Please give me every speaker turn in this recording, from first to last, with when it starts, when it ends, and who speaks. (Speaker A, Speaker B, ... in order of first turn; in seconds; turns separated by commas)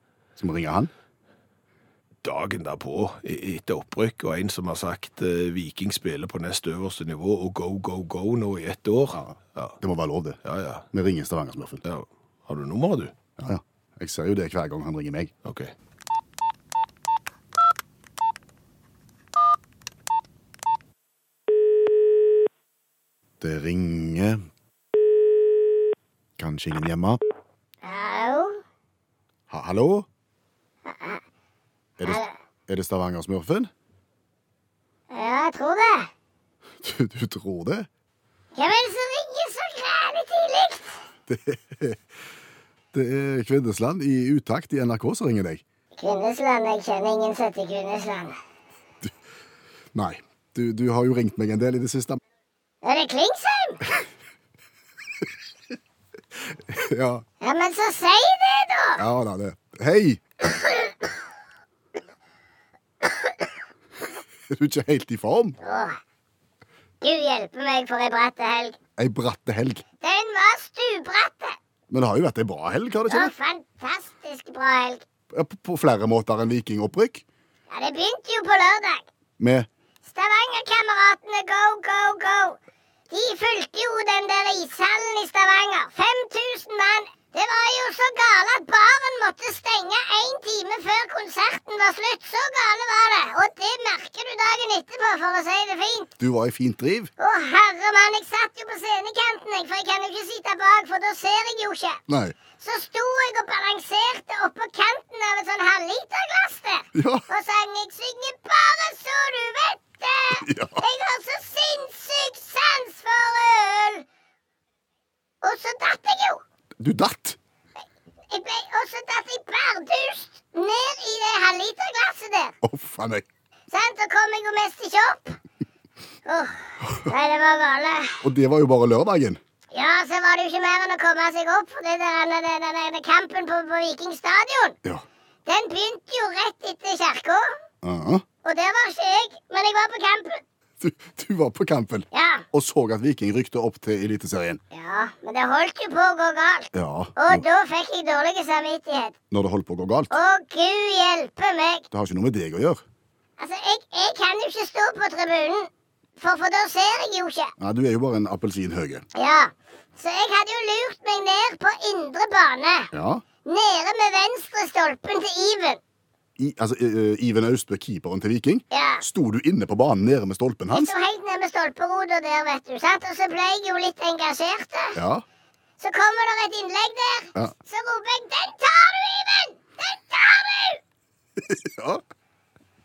Speaker A: 0.4-0.9, Speaker B: 2.2-9.8, Speaker A: 9.1-10.4, Speaker B: 10.4-10.8, Speaker A: 10.9-11.8, Speaker B: 11.8-13.1, Speaker A: 13.4-15.3, Speaker B: 15.4-15.7, Speaker A: 23.4-24.4, Speaker A: 26.4-27.2, Speaker C: 27.8-28.6, Speaker A: 29.5-30.1, Speaker C: 30.9-31.2, Speaker A: 32.0-33.7, Speaker C: 32.0-32.3, Speaker C: 35.1-36.1, Speaker A: 36.8-37.9, Speaker C: 38.5-41.0, Speaker A: 41.3-42.0, Speaker A: 42.9-45.6, Speaker C: 46.0-48.4, Speaker A: 49.9-52.2, Speaker C: 52.8-54.0, Speaker A: 56.7-57.2, Speaker C: 57.4-59.0, Speaker A: 59.0-60.2, Speaker C: 60.5-61.1, Speaker C: 63.0-63.5, Speaker A: 64.5-65.6, Speaker C: 65.6-66.0, Speaker C: 67.0-68.8, Speaker A: 69.0-69.8, Speaker C: 70.0-71.6, Speaker A: 71.9-73.3, Speaker C: 73.1-75.0, Speaker A: 75.3-77.2, Speaker C: 77.7-79.1, Speaker A: 79.4-79.7, Speaker C: 80.0-82.6, Speaker C: 83.1-96.1, Speaker A: 96.2-97.1, Speaker C: 97.2-102.0, Speaker A: 102.1-102.4, Speaker C: 102.6-114.0, Speaker A: 107.0-107.2, Speaker A: 110.3-110.8, Speaker C: 115.4-116.4, Speaker A: 116.8-117.4, Speaker C: 118.3-122.5, Speaker A: 122.6-123.3, Speaker C: 123.7-125.4, Speaker C: 126.3-128.2, Speaker A: 128.2-129.4, Speaker C: 129.7-134.8, Speaker C: 135.5-137.5, Speaker A: 137.8-138.2, Speaker C: 138.4-140.4, Speaker A: 140.8-144.6, Speaker C: 142.1-142.4, Speaker C: 144.7-149.2, Speaker A: 146.7-147.4, Speaker A: 149.3-150.2, Speaker C: 150.1-151.9, Speaker A: 151.9-152.8, Speaker C: 153.4-157.5, Speaker A: 157.6-159.0, Speaker C: 159.2-162.9, Speaker A: 162.9-163.2, Speaker C: 163.4-165.8, Speaker A: 166.4-170.9, Speaker C: 168.7-169.1, Speaker C: 170.7-175.0, Speaker A: 175.0-175.2, Speaker C: 175.8-180.8, Speaker A: 181.4-182.0